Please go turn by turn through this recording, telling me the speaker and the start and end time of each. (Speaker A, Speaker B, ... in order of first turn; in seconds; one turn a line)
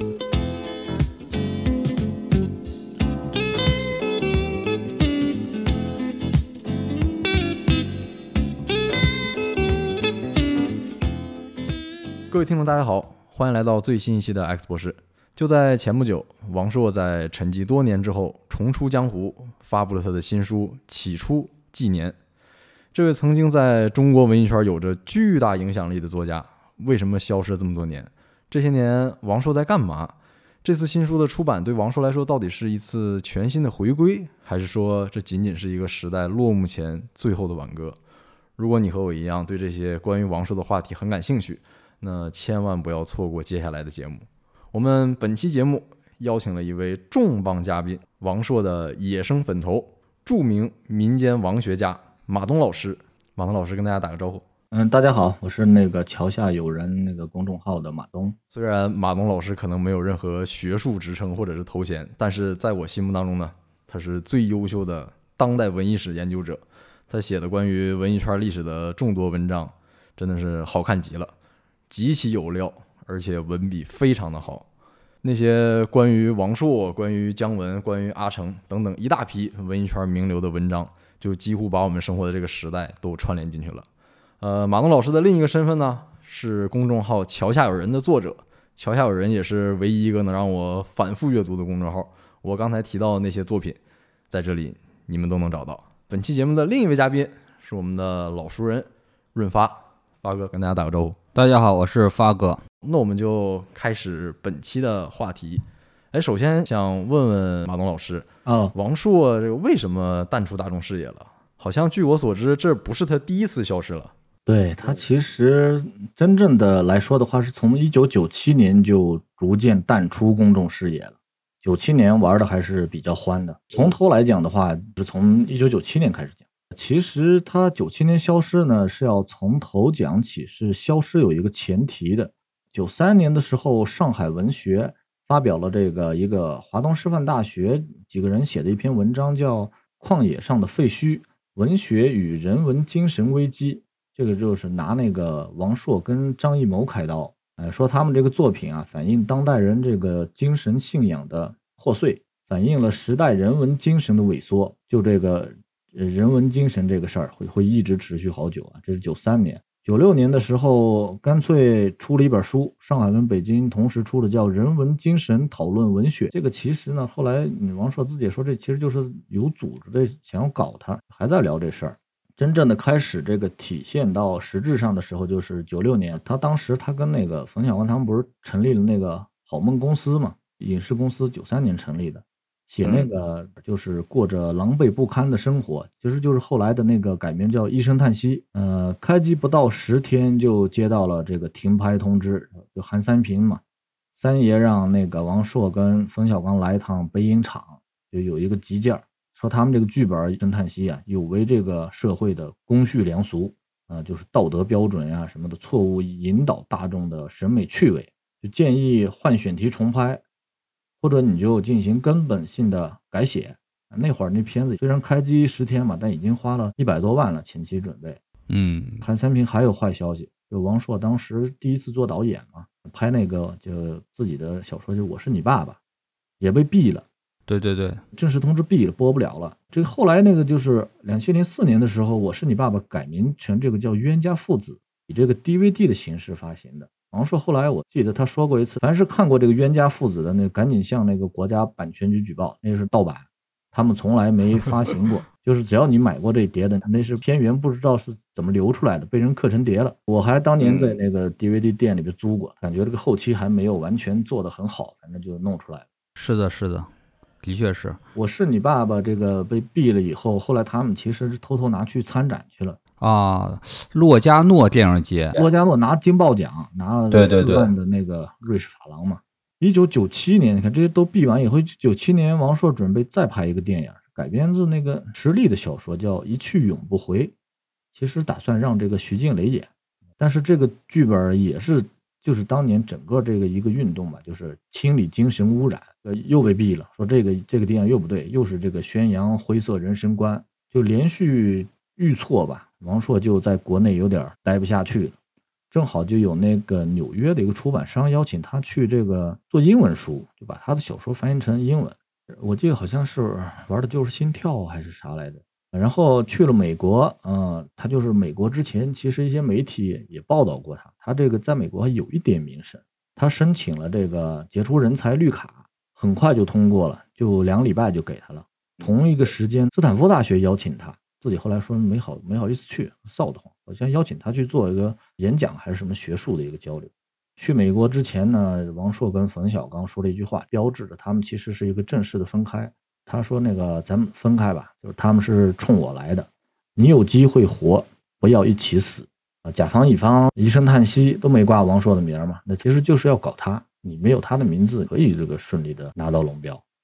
Speaker A: 12.3-22.2
Speaker A: 22.9-38.0
Speaker A: 38.6-54.5
Speaker B: 54.7-58.4
Speaker A: 58.5-71.3
Speaker A: 71.9-74.7
Speaker A: 75.2-83.8
Speaker A: 84.4-93.8
Speaker A: 94.3-101.2
Speaker C: 101.3-102.6
Speaker A: 102.8-114.1
Speaker B: 108.5-108.7
Speaker B: 114.5-193.6
Speaker B: 194.2-210.2
Speaker B: 211.0-218.2
Speaker C: 218.5-219.0
Speaker B: 219.0-225.8
Speaker B: 226.4-227.1
Speaker C: 227.5-228.0
Speaker B: 228.1-255.9
Speaker C: 256.2-256.9
Speaker C: 257.4-258.0
Speaker B: 258.1-262.8
Speaker C: 263.0-265.4
Speaker B: 265.3-277.3
Speaker C: 267.1-267.7
Speaker B: 277.9-295.1
Speaker B: 295.7-346.6